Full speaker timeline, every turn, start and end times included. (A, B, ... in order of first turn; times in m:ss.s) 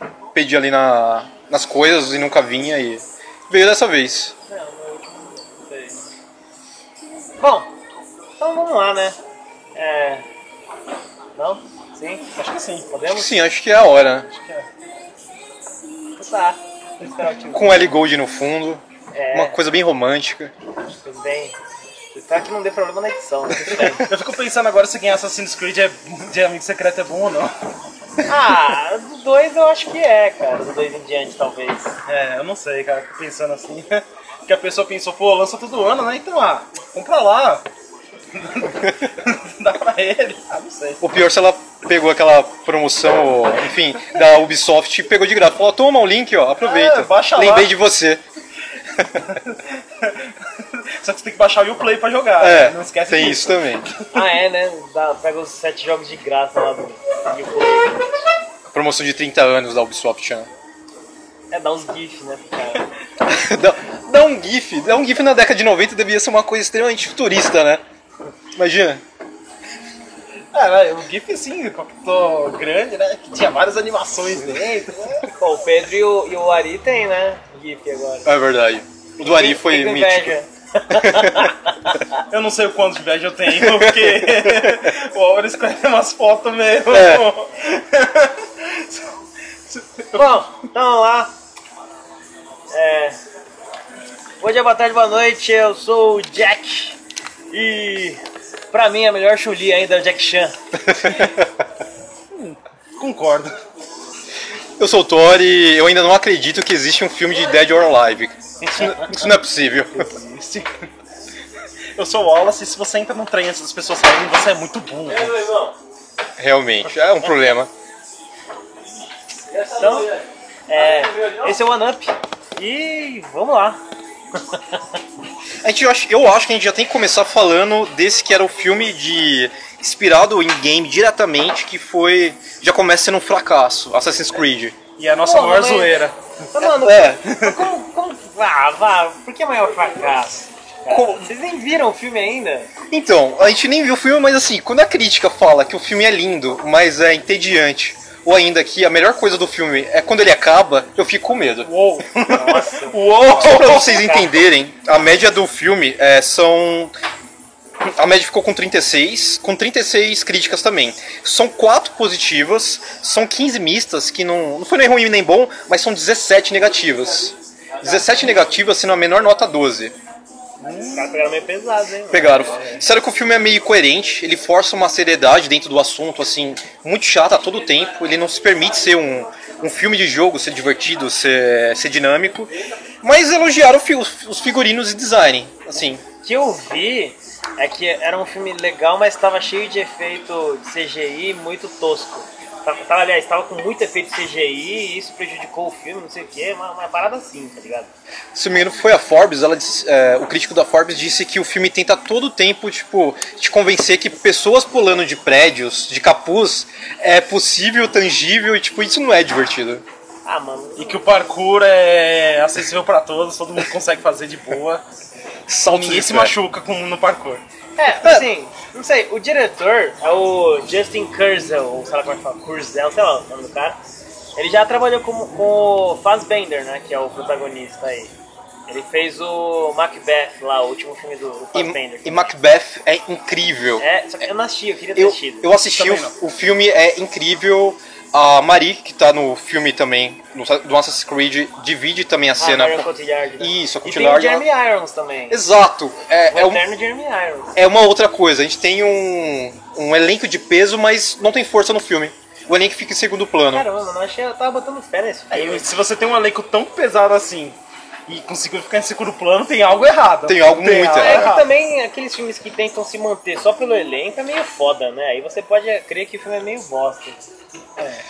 0:00.3-0:04.3 A
0:04.5-0:06.0 B
0:07.4-0:07.7 B
0:08.4-0:09.2 B
0:09.8-0:10.2 B
0:11.4-0:12.2 B
0:12.4-0:12.9 C
0:12.9-0:13.4 B
0:13.0-0:14.3 A
0:14.1-0:14.7 C
0:16.2-0:17.8 B
0:17.5-0:20.5 A
0:19.1-0:19.6 B
0:21.0-0:21.6 B
0:22.1-0:24.1 B
0:23.8-0:27.5 C
0:28.3-0:32.0 B
0:32.1-0:37.6 C
0:38.3-0:41.0 C
0:41.0-0:48.2 A
0:46.6-0:47.7 C
0:49.2-0:54.3 C
0:52.4-0:53.9 A
0:54.1-0:58.1 B
0:58.7-1:00.5 A
1:01.5-1:02.9 B
1:03.2-1:07.8 A
1:08.6-1:09.0 A
1:10.5-1:15.3 C
1:15.3-1:18.3 B
1:18.3-1:20.4 A
1:19.2-1:22.0 B
1:20.9-1:21.5 A
1:22.2-1:29.1 C
1:23.7-1:24.7 A
1:26.9-1:27.3 A
1:29.7-1:30.5 C
1:30.2-1:31.3 B
1:32.7-1:33.2 B
1:34.4-1:37.0 B
1:37.5-1:40.6 B
1:40.9-1:41.5 A
1:42.3-1:43.6 C
1:44.8-1:50.1 A
1:48.6-1:49.3 B
1:50.1-1:50.9 C
1:52.0-1:55.5 C
1:56.4-1:57.7 A
1:59.6-2:00.1 B
2:00.7-2:03.8 B
2:04.4-2:04.8 B
2:05.6-2:14.8 A
2:15.0-2:16.2 C
2:15.2-2:16.0 B
2:16.5-2:22.7 B
2:16.6-2:17.2 A
2:17.2-2:17.7 C
2:20.9-2:21.3 A
2:22.9-2:31.7 A
2:31.6-2:34.0 C
2:32.3-2:34.3 B
2:33.3-2:36.9 A
2:37.8-2:50.0 A
2:50.6-2:51.1 C
2:50.9-2:52.8 B
2:52.1-3:06.0 A
3:06.2-3:17.9 B
3:18.3-3:29.8 A
3:30.2-3:30.9 B
3:30.8-3:34.8 C
3:35.5-3:36.3 A
3:35.7-3:37.4 C
3:37.8-3:43.8 B
3:44.4-3:48.1 B
3:48.7-3:52.3 B
3:51.5-3:53.8 A
3:53.8-3:55.5 B
3:55.0-4:02.9 A
3:55.8-3:56.2 C
4:02.4-4:05.4 B
4:03.4-4:04.5 A
4:05.3-4:06.6 A
4:06.3-4:07.6 B
4:07.6-4:13.7 A
4:13.5-4:15.7 B
4:15.3-4:21.5 C
4:20.3-4:21.3 A
4:21.0-4:27.2 B